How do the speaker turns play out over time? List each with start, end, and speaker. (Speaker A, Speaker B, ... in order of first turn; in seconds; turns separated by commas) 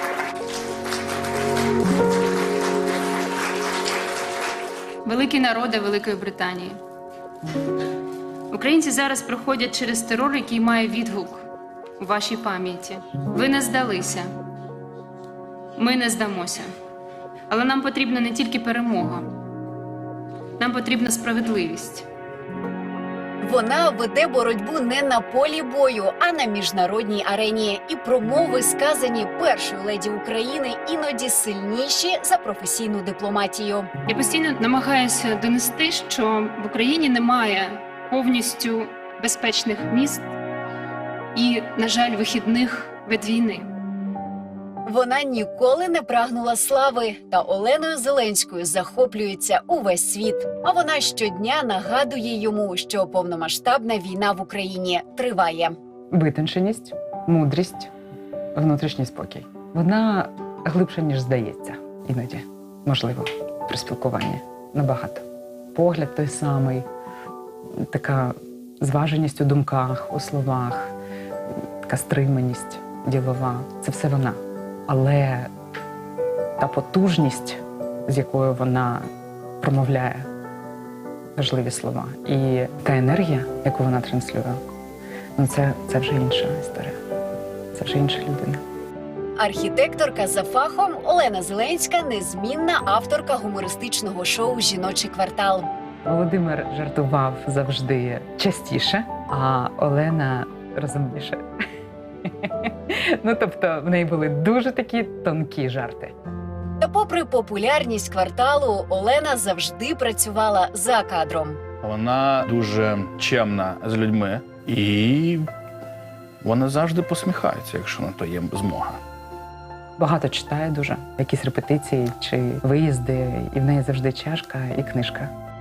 Speaker A: 5.0-6.8, Speaker A: 8.5-11.4, Speaker A: 12.0-14.2, Speaker A: 15.8-16.7, Speaker A: 17.5-19.3, Speaker A: 20.6-22.1, Speaker B: 23.4-33.9, Speaker A: 34.1-40.3, Speaker A: 41.3-43.7, Speaker B: 44.9-55.8, Speaker C: 56.1-57.9, Speaker C: 58.5-66.8, Speaker C: 67.8-70.9, Speaker C: 71.8-75.5, Speaker C: 76.6-79.1, Speaker C: 79.6-80.2, Speaker C: 81.3-84.6, Speaker C: 85.3-86.9, Speaker C: 87.7-88.6, Speaker B: 89.4-95.7, Speaker C: 96.0-101.4, Speaker C: 102.3-106.1, Speaker B: 106.8-111.6, Speaker D: 111.8-115.5, Speaker D: 116.4-119.0, Speaker C: 120.0-125.3